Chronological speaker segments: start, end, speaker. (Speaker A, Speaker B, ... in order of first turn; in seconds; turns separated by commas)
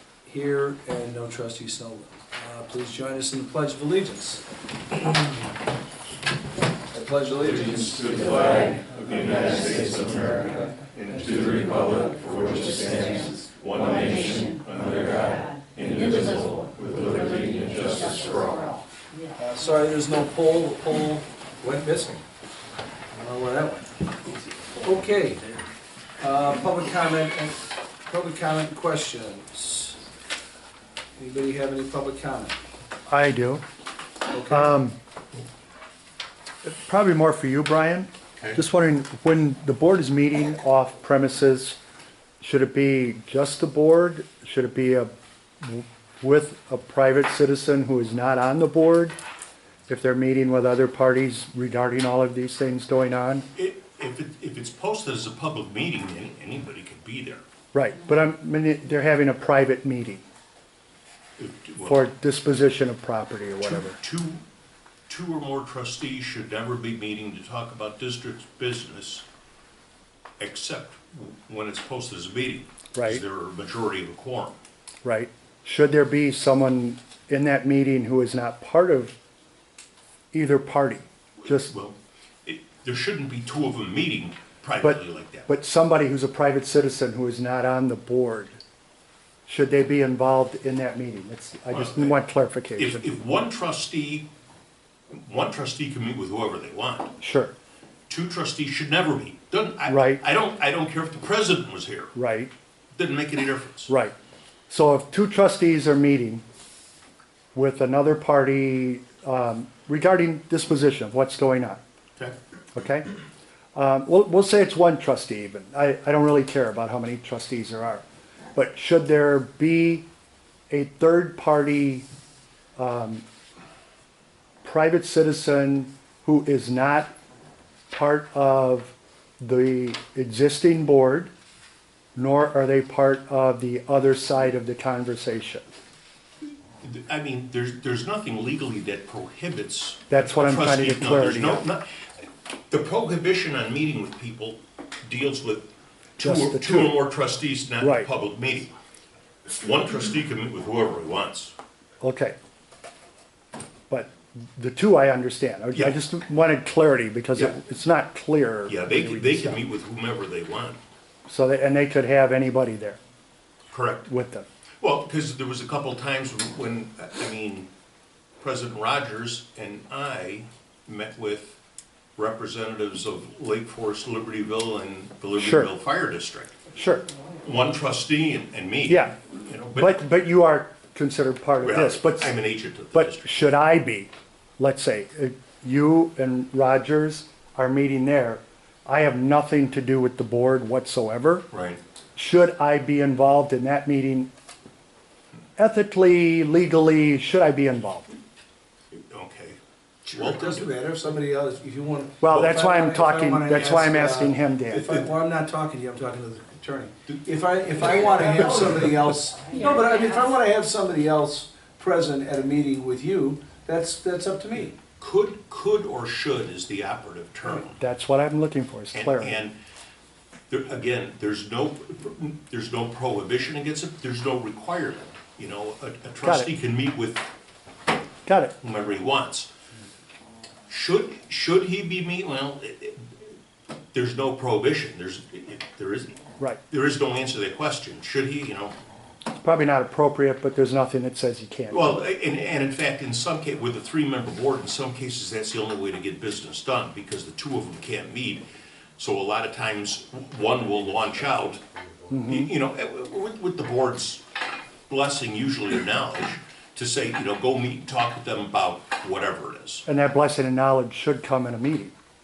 Speaker A: 0.2-4.4, Speaker A: 6.9-8.5, Speaker B: 7.7-18.8, Speaker A: 19.4-22.2, Speaker A: 23.1-23.9, Speaker A: 24.8-25.4, Speaker A: 26.2-30.0, Speaker A: 31.2-32.5, Speaker C: 33.1-33.6, Speaker A: 34.3-34.8, Speaker C: 34.5-35.0, Speaker C: 36.6-41.8, Speaker C: 42.4-49.2, Speaker C: 49.9-53.5, Speaker B: 53.5-57.4, Speaker C: 57.7-60.2, Speaker B: 61.4-62.0, Speaker C: 61.8-64.0, Speaker B: 63.6-64.4, Speaker B: 65.1-69.2, Speaker B: 70.4-74.6, Speaker C: 72.9-73.2, Speaker C: 75.0-79.2, Speaker C: 80.3-81.7, Speaker B: 81.5-85.5, Speaker C: 84.8-88.6, Speaker C: 89.5-93.1, Speaker B: 91.7-92.2, Speaker B: 92.8-94.3, Speaker B: 95.1-97.2, Speaker C: 97.2-97.5, Speaker B: 98.1-102.1, Speaker C: 99.9-100.2, Speaker C: 102.2-102.5, Speaker B: 103.0-103.9, Speaker C: 103.9-104.2, Speaker C: 104.7-106.4, Speaker C: 107.5-111.8, Speaker C: 112.7-113.1, Speaker C: 113.8-118.0, Speaker C: 118.5-120.1, Speaker C: 120.7-122.1, Speaker C: 122.8-123.2, Speaker C: 124.6-127.1, Speaker C: 127.9-131.3, Speaker C: 132.2-135.6, Speaker B: 136.8-141.9, Speaker C: 140.1-141.7, Speaker B: 142.7-148.7, Speaker C: 146.2-147.0, Speaker C: 147.8-148.1, Speaker B: 149.6-151.5, Speaker C: 152.0-152.4, Speaker C: 153.9-159.6, Speaker B: 158.7-160.8, Speaker C: 161.3-163.0, Speaker B: 163.7-164.1, Speaker C: 164.1-164.5, Speaker B: 164.8-167.7, Speaker B: 168.4-171.6, Speaker B: 172.2-176.6, Speaker C: 175.4-175.7, Speaker C: 176.8-177.1, Speaker B: 177.4-180.0, Speaker C: 178.8-179.2, Speaker C: 179.8-182.3, Speaker B: 181.6-183.5, Speaker C: 182.9-191.5, Speaker B: 191.5-191.8, Speaker C: 192.2-194.3, Speaker C: 195.6-198.1, Speaker B: 198.9-200.7, Speaker A: 200.1-214.8, Speaker C: 202.2-205.0, Speaker B: 215.0-217.8, Speaker C: 217.8-219.4, Speaker B: 218.9-219.6, Speaker B: 220.5-227.3, Speaker C: 226.2-226.5, Speaker C: 228.3-228.6, Speaker B: 228.6-229.5, Speaker B: 230.7-233.1, Speaker B: 233.9-236.2, Speaker B: 236.7-238.8, Speaker C: 239.4-242.0, Speaker B: 241.7-248.4, Speaker B: 249.0-251.6, Speaker C: 252.1-252.5, Speaker B: 252.3-254.2, Speaker B: 254.9-259.9, Speaker C: 259.9-261.9